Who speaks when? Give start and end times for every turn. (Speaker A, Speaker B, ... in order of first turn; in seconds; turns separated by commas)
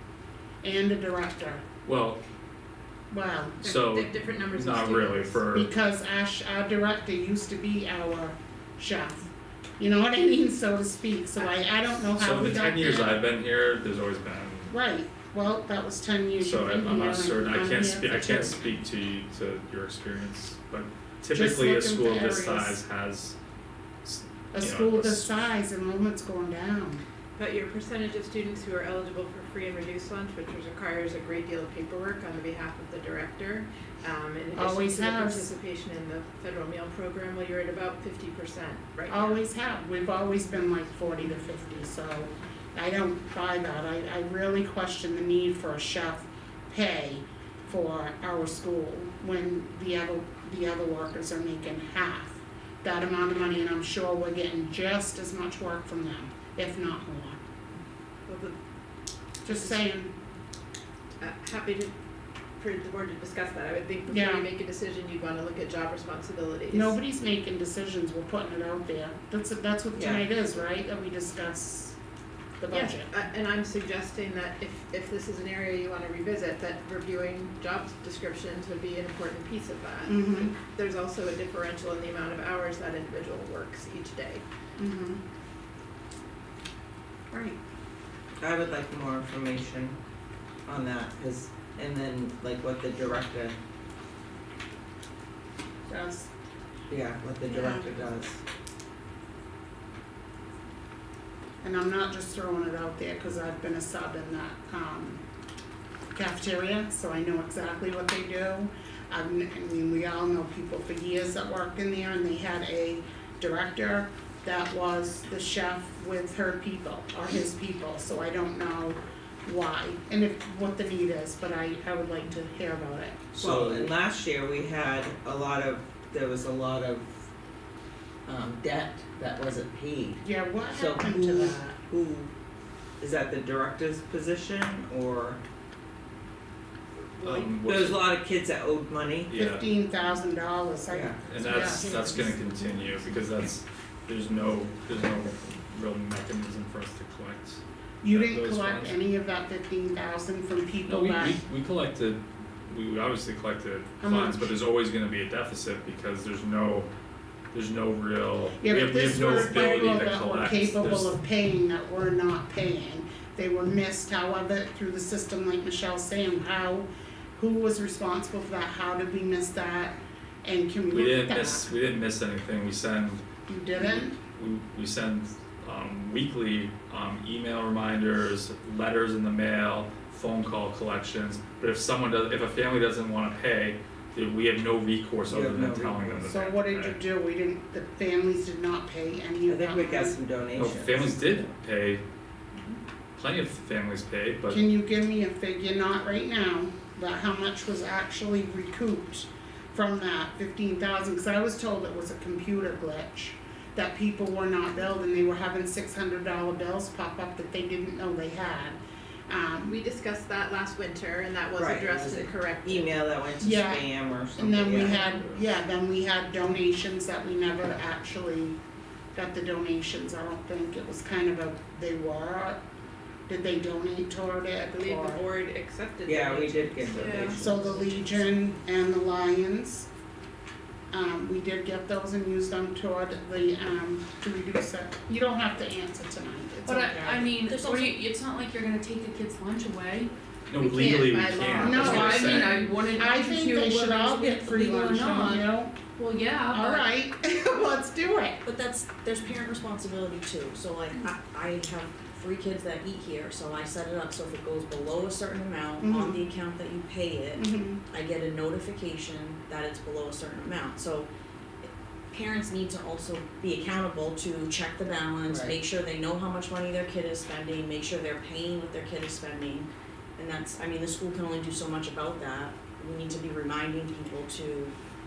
Speaker A: 0.6-1.6, Speaker B: 1.8-2.2, Speaker A: 3.1-3.6, Speaker B: 3.6-5.7, Speaker C: 3.6-5.4, Speaker A: 5.5-9.3, Speaker A: 9.8-13.2, Speaker B: 12.2-14.7, Speaker A: 14.7-18.7, Speaker B: 16.4-23.4, Speaker A: 21.3-22.8, Speaker B: 24.0-25.4, Speaker A: 24.5-27.0, Speaker C: 27.4-39.4, Speaker A: 34.5-35.5, Speaker A: 39.1-57.4, Speaker C: 58.3-58.5, Speaker A: 59.5-60.1, Speaker C: 59.5-59.9, Speaker C: 61.2-61.9, Speaker C: 62.6-67.0, Speaker A: 64.1-64.5, Speaker A: 66.7-72.0, Speaker D: 69.9-70.3, Speaker A: 72.6-73.1, Speaker C: 72.7-84.4, Speaker A: 80.0-80.5, Speaker A: 84.8-85.2, Speaker D: 88.4-90.0, Speaker D: 90.7-93.5, Speaker A: 95.9-96.3, Speaker D: 96.9-98.4, Speaker A: 97.5-97.9, Speaker A: 101.6-105.2, Speaker A: 106.1-123.3, Speaker B: 123.3-123.9, Speaker D: 123.4-127.2, Speaker D: 128.2-132.3, Speaker A: 130.2-131.8, Speaker D: 133.0-135.4, Speaker B: 137.2-138.1, Speaker D: 137.5-139.3, Speaker B: 139.3-139.6, Speaker A: 139.3-142.3, Speaker D: 140.9-141.2, Speaker B: 141.2-149.0, Speaker E: 141.6-142.2, Speaker A: 148.0-151.4, Speaker B: 150.9-156.9, Speaker A: 154.0-154.5, Speaker B: 157.5-161.2, Speaker A: 158.6-171.7, Speaker B: 170.9-173.2, Speaker A: 173.5-174.2, Speaker B: 173.9-187.0, Speaker D: 185.3-186.2, Speaker A: 186.3-190.2, Speaker D: 189.5-191.5, Speaker B: 190.5-192.0, Speaker B: 193.2-194.6, Speaker A: 194.5-209.8, Speaker C: 209.6-212.9, Speaker D: 211.5-215.1, Speaker A: 213.4-218.6, Speaker B: 215.0-215.4, Speaker A: 219.1-222.6, Speaker A: 223.3-225.2, Speaker C: 224.8-228.2, Speaker D: 226.1-227.8, Speaker F: 226.9-227.4, Speaker A: 227.4-229.9, Speaker A: 230.9-237.3, Speaker F: 236.7-240.1, Speaker E: 237.4-238.0, Speaker B: 240.5-242.7, Speaker C: 240.6-242.5, Speaker A: 241.6-245.8, Speaker F: 241.9-246.8, Speaker A: 246.5-248.4, Speaker E: 248.4-261.1, Speaker A: 255.8-256.2, Speaker A: 257.4-257.8, Speaker E: 261.6-274.7, Speaker D: 265.3-265.6